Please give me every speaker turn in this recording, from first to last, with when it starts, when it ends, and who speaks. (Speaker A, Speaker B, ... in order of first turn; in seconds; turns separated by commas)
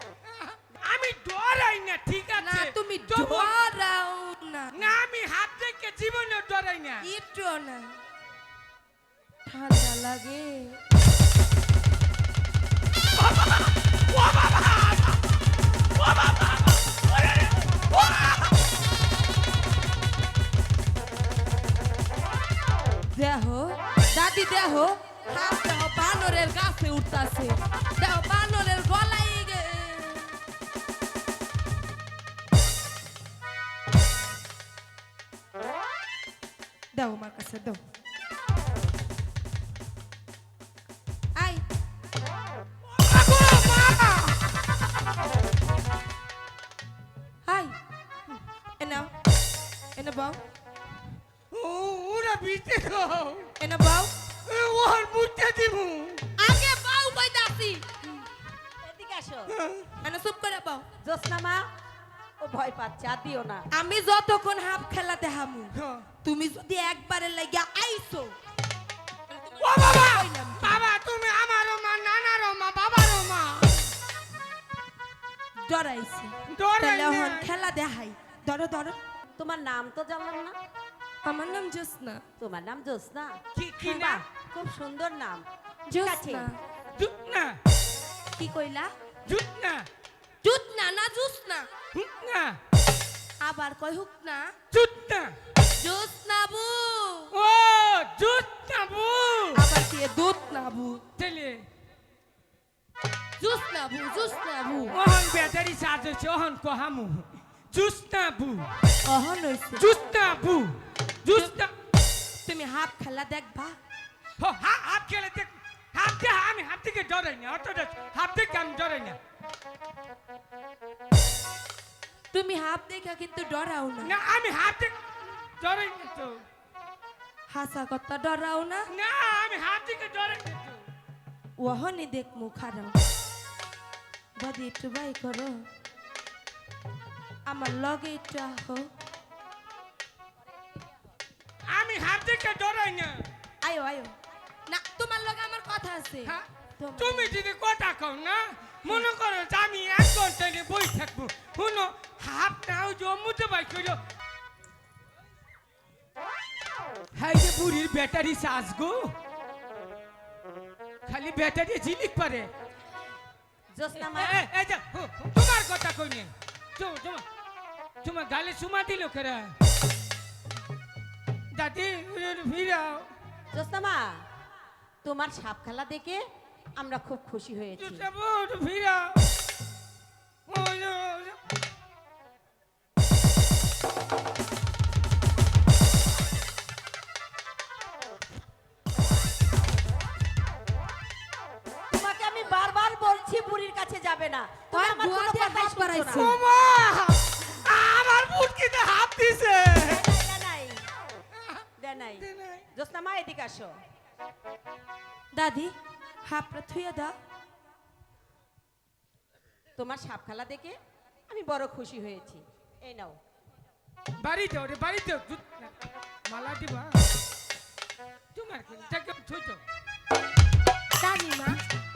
Speaker A: 0.4-3.5, Speaker B: 2.4-4.9, Speaker A: 4.7-7.1, Speaker B: 7.0-8.0, Speaker B: 9.4-10.8, Speaker A: 14.3-14.7, Speaker B: 23.1-30.4, Speaker B: 36.9-37.8, Speaker B: 41.3-41.6, Speaker A: 42.9-44.5, Speaker B: 47.5-47.8, Speaker B: 48.8-49.1, Speaker B: 50.0-50.4, Speaker A: 51.5-53.5, Speaker B: 53.6-54.1, Speaker A: 54.5-56.2, Speaker B: 56.4-57.9, Speaker C: 58.8-59.6, Speaker A: 59.5-59.9, Speaker B: 60.0-60.9, Speaker C: 61.0-61.7, Speaker C: 62.4-63.7, Speaker B: 63.7-68.4, Speaker A: 65.7-66.1, Speaker B: 69.3-70.8, Speaker A: 69.6-73.9, Speaker B: 75.6-79.0, Speaker A: 76.5-77.5, Speaker C: 79.4-80.6, Speaker B: 81.2-82.2, Speaker C: 82.4-85.5, Speaker A: 83.5-84.2, Speaker B: 85.9-86.6, Speaker C: 86.0-86.5, Speaker A: 87.0-87.6, Speaker B: 88.4-88.9, Speaker A: 89.2-89.9, Speaker B: 90.4-91.7, Speaker A: 91.9-92.6, Speaker B: 93.4-94.5, Speaker A: 94.7-95.3, Speaker B: 95.8-97.3, Speaker A: 97.3-99.6, Speaker B: 99.5-101.0, Speaker A: 101.2-101.6, Speaker B: 103.4-105.0, Speaker A: 104.9-108.7, Speaker B: 109.0-109.9, Speaker A: 109.8-111.7, Speaker B: 111.3-111.6, Speaker B: 112.4-113.8, Speaker A: 114.4-119.2, Speaker B: 122.3-124.2, Speaker A: 124.0-125.0, Speaker A: 125.6-126.4, Speaker B: 127.5-128.9, Speaker A: 128.9-130.8, Speaker B: 131.6-133.0, Speaker B: 134.4-135.7, Speaker B: 137.5-138.9, Speaker A: 141.7-143.2, Speaker B: 143.6-144.1, Speaker B: 144.7-147.3, Speaker A: 146.2-154.0, Speaker A: 157.2-159.1, Speaker A: 161.1-162.5, Speaker C: 163.7-164.5, Speaker A: 164.0-167.2, Speaker A: 168.0-169.5, Speaker A: 171.5-173.1, Speaker C: 173.5-174.2, Speaker C: 175.0-178.1, Speaker A: 177.8-179.3, Speaker A: 180.5-181.4, Speaker C: 191.9-196.3, Speaker B: 194.7-196.4, Speaker A: 196.1-200.0, Speaker C: 200.0-200.8, Speaker C: 201.8-203.8, Speaker A: 202.2-202.7, Speaker B: 205.3-207.2, Speaker C: 209.8-210.8, Speaker C: 211.3-213.2, Speaker A: 214.2-215.7, Speaker A: 216.2-217.0, Speaker A: 218.3-219.6, Speaker B: 221.0-221.6